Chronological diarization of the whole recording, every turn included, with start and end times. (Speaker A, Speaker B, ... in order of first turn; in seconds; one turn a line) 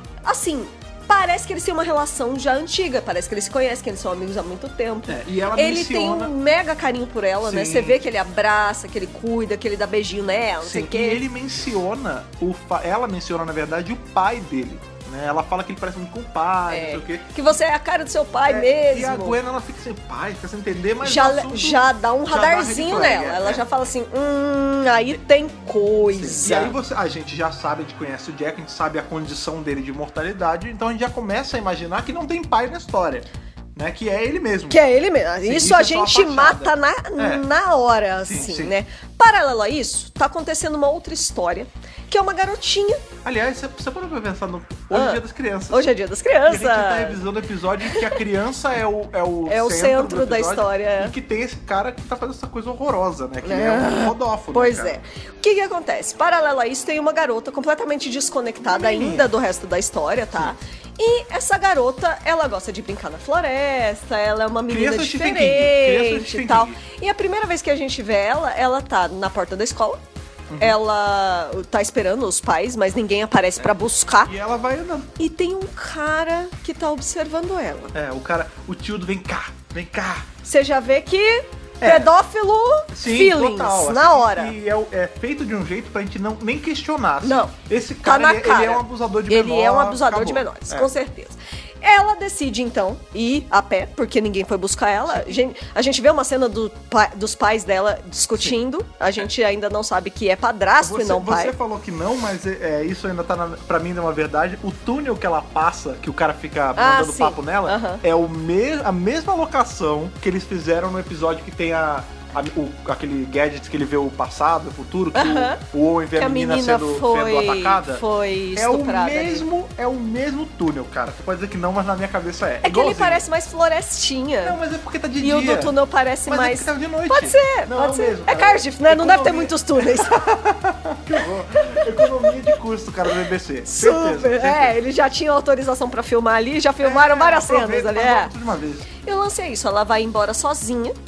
Speaker A: 0.2-11.2
Speaker B: 5.1-6.3
Speaker B: 7.4-8.0
Speaker B: 10.6-17.3
Speaker A: 16.7-19.4
Speaker B: 18.5-23.6
Speaker A: 21.0-26.7
Speaker B: 26.1-34.8
Speaker A: 34.7-43.0
Speaker B: 35.4-37.4
Speaker B: 38.2-38.8
Speaker B: 43.2-45.9
Speaker A: 44.9-47.2
Speaker B: 46.5-54.9
Speaker A: 47.9-48.2
Speaker A: 49.5-51.1
Speaker A: 53.4-70.0
Speaker B: 58.6-59.3
Speaker B: 64.7-66.8
Speaker B: 70.5-70.8
Speaker A: 70.6-74.3
Speaker B: 73.6-75.2
Speaker A: 75.2-77.9
Speaker B: 77.9-80.3
Speaker A: 80.4-84.5
Speaker B: 81.8-82.1
Speaker B: 82.9-90.9
Speaker A: 87.2-101.5
Speaker B: 95.1-95.4
Speaker B: 100.8-118.0
Speaker A: 106.8-108.0
Speaker A: 115.1-115.6
Speaker A: 116.2-119.5
Speaker B: 118.5-123.2
Speaker A: 122.6-124.6
Speaker B: 124.4-125.8
Speaker A: 125.2-130.2
Speaker B: 126.3-134.8
Speaker A: 131.7-132.3
Speaker A: 133.7-138.3
Speaker B: 136.8-138.9
Speaker A: 139.0-140.9